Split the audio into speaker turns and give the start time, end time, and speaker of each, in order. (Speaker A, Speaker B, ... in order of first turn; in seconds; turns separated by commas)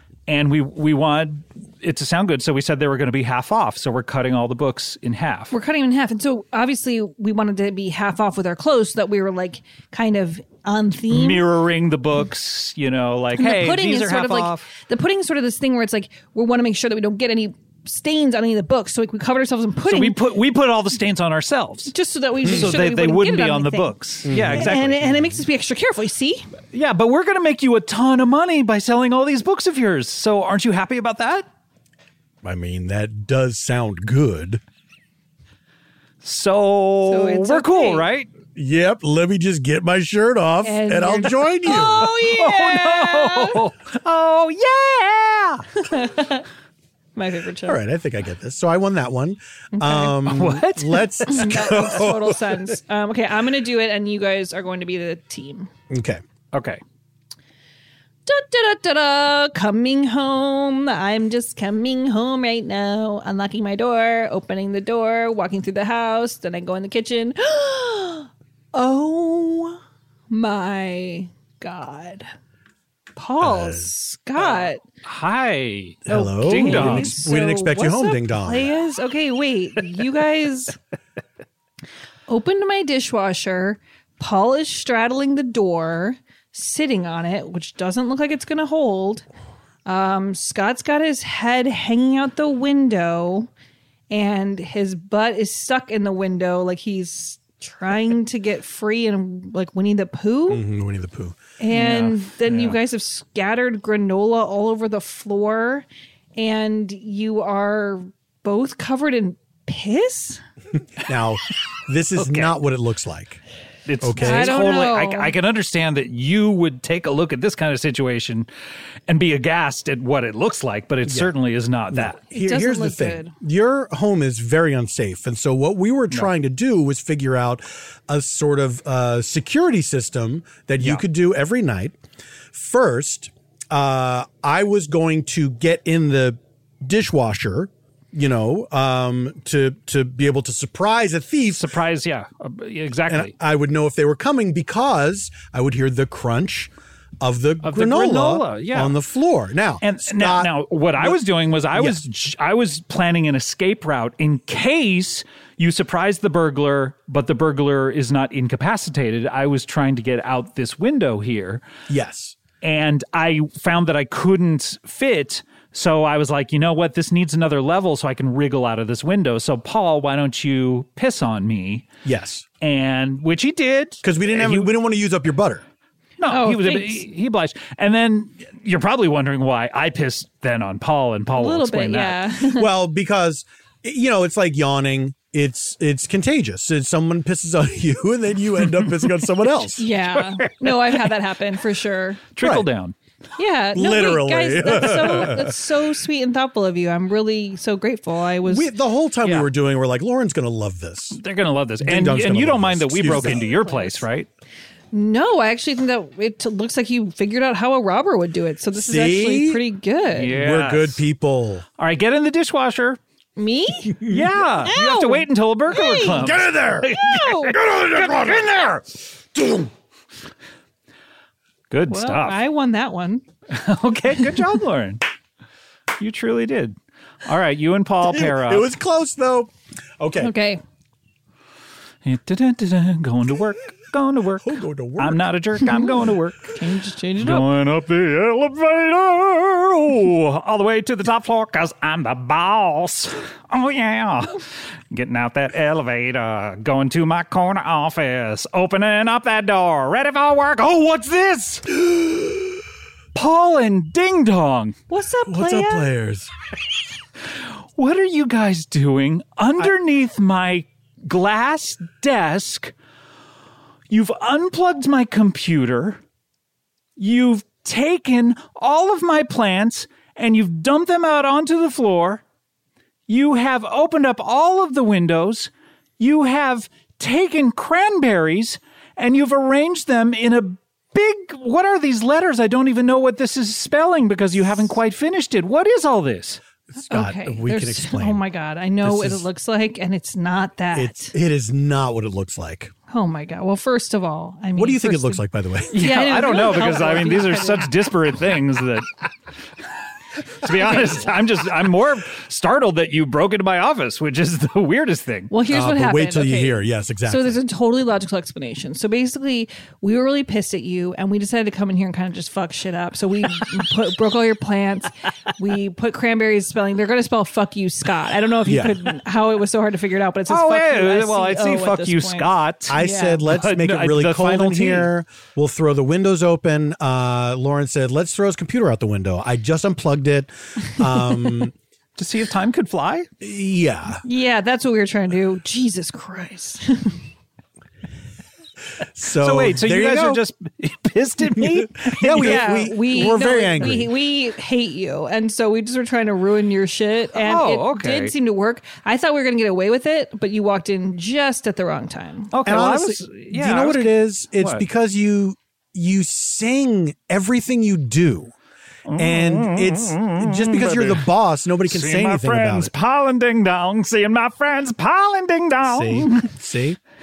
Speaker A: 0.3-5.5, Speaker B: 5.5-11.4, Speaker A: 11.1-14.7, Speaker B: 13.3-20.2, Speaker A: 19.9-25.0, Speaker B: 21.9-23.9, Speaker C: 24.2-25.4, Speaker B: 24.5-26.5, Speaker A: 26.7-31.5, Speaker C: 32.4-34.6, Speaker A: 36.2-38.3, Speaker B: 37.1-38.0, Speaker C: 38.5-42.1, Speaker B: 40.6-43.6, Speaker A: 42.2-45.6, Speaker B: 45.8-46.5, Speaker B: 47.1-47.8, Speaker C: 47.6-52.7, Speaker B: 49.7-50.2, Speaker A: 50.2-51.6, Speaker B: 51.2-55.7, Speaker C: 55.9-56.2, Speaker A: 56.5-56.8, Speaker B: 58.3-69.8, Speaker B: 70.3-72.3, Speaker B: 73.2-74.8, Speaker C: 73.4-73.9, Speaker A: 74.4-77.2, Speaker C: 76.1-78.7, Speaker B: 76.1-80.8, Speaker B: 82.3-89.2, Speaker B: 89.8-93.5, Speaker B: 94.1-100.6, Speaker C: 100.5-101.4, Speaker B: 101.6-105.8, Speaker A: 101.7-102.8, Speaker B: 106.4-110.4, Speaker C: 111.0-113.4, Speaker A: 112.2-112.6, Speaker A: 113.8-118.5, Speaker C: 114.0-114.6, Speaker B: 114.2-115.3, Speaker A: 119.1-122.2, Speaker C: 121.0-121.3, Speaker C: 121.9-131.9, Speaker B: 122.3-123.3, Speaker C: 132.5-141.7, Speaker A: 141.5-143.3, Speaker C: 143.1-151.2, Speaker A: 147.6-149.0, Speaker A: 149.8-161.6, Speaker C: 151.7-152.0, Speaker C: 161.9-162.4, Speaker A: 162.6-171.9, Speaker C: 172.0-172.4, Speaker A: 172.6-174.7, Speaker C: 174.0-175.6, Speaker A: 176.2-182.2, Speaker B: 176.3-177.1, Speaker B: 181.3-182.7, Speaker C: 182.5-189.8, Speaker A: 188.6-189.3, Speaker B: 189.8-192.2, Speaker A: 189.8-191.2, Speaker A: 192.3-192.9, Speaker C: 192.4-192.7, Speaker B: 193.4-198.7, Speaker C: 193.7-195.6, Speaker C: 198.4-201.2, Speaker A: 199.2-199.5, Speaker A: 201.1-204.3, Speaker C: 201.8-203.5, Speaker B: 203.3-204.0, Speaker B: 204.9-210.3, Speaker C: 208.7-209.6, Speaker A: 210.1-211.0, Speaker C: 210.2-211.6, Speaker A: 211.8-213.0, Speaker B: 213.4-214.1, Speaker A: 214.0-218.5, Speaker B: 214.7-217.6, Speaker C: 216.1-216.9, Speaker C: 217.5-219.7, Speaker A: 221.7-222.4, Speaker B: 221.9-223.2, Speaker A: 223.5-225.0, Speaker A: 226.0-228.7, Speaker C: 228.0-230.3, Speaker B: 230.2-230.6, Speaker A: 232.0-236.6, Speaker C: 234.4-235.3, Speaker B: 236.5-237.4, Speaker A: 237.2-251.7, Speaker C: 251.8-252.6, Speaker A: 253.1-254.8, Speaker B: 254.9-255.9, Speaker C: 255.3-256.3, Speaker A: 257.8-262.7, Speaker A: 263.9-266.0, Speaker A: 267.0-272.2, Speaker A: 273.1-286.4, Speaker B: 286.8-291.1, Speaker C: 286.9-288.2, Speaker C: 288.8-289.3, Speaker C: 290.7-292.7, Speaker B: 292.9-295.2, Speaker C: 294.6-295.8, Speaker A: 295.7-298.9, Speaker B: 295.8-297.7, Speaker A: 300.4-305.3, Speaker B: 300.6-301.1, Speaker B: 305.3-323.2, Speaker C: 305.5-307.4, Speaker C: 318.4-318.8, Speaker A: 320.3-324.9, Speaker C: 322.7-331.5, Speaker A: 332.0-333.1, Speaker C: 333.2-334.0, Speaker B: 334.0-337.0, Speaker C: 338.8-340.2, Speaker A: 339.2-342.5, Speaker C: 341.3-343.9, Speaker B: 342.2-352.3, Speaker A: 347.1-348.1, Speaker A: 352.3-354.6, Speaker C: 352.4-358.3, Speaker A: 358.9-361.1, Speaker C: 358.9-362.7, Speaker A: 361.7-366.3, Speaker C: 365.6-366.8